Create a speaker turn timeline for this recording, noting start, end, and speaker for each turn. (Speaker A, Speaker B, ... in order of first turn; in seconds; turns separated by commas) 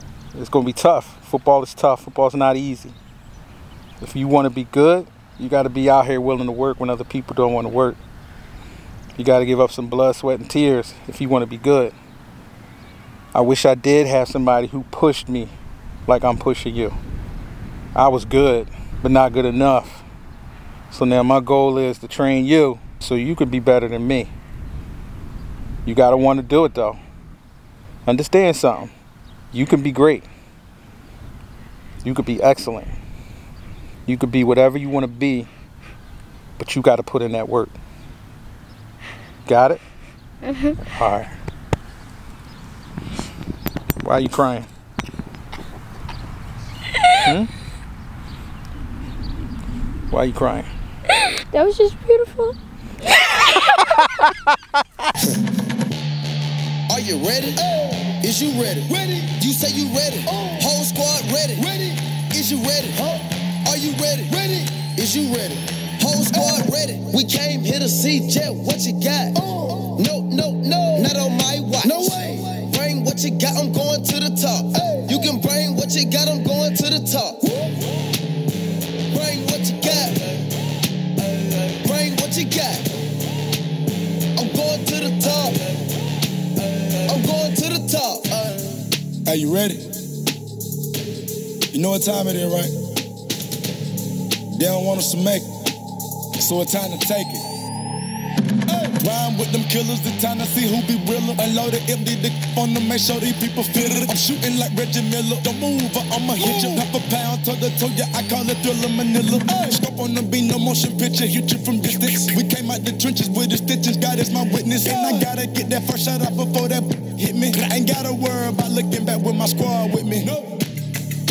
Speaker A: 0.3-3.0, Speaker A: 4.0-8.0, Speaker A: 9.2-11.9, Speaker A: 13.3-15.5, Speaker A: 16.1-17.0, Speaker A: 17.9-20.0, Speaker A: 20.9-24.3, Speaker A: 25.9-27.0, Speaker A: 28.1-28.9, Speaker A: 29.5-30.3, Speaker A: 32.0-33.0, Speaker A: 34.0-35.5, Speaker A: 36.6-37.8, Speaker A: 39.5-39.8, Speaker B: 40.4-40.8, Speaker A: 40.8-41.3, Speaker A: 44.0-44.7, Speaker A: 47.1-47.5, Speaker A: 50.1-50.7, Speaker B: 51.3-52.5, Speaker B: 53.1-53.9, Speaker C: 56.9-77.7, Speaker C: 79.1-80.5, Speaker C: 81.4-82.9, Speaker C: 84.3-85.8, Speaker C: 86.9-88.8, Speaker D: 89.2-89.9, Speaker D: 91.7-92.7, Speaker D: 94.5-95.5, Speaker D: 96.4-97.5, Speaker D: 98.7-120.4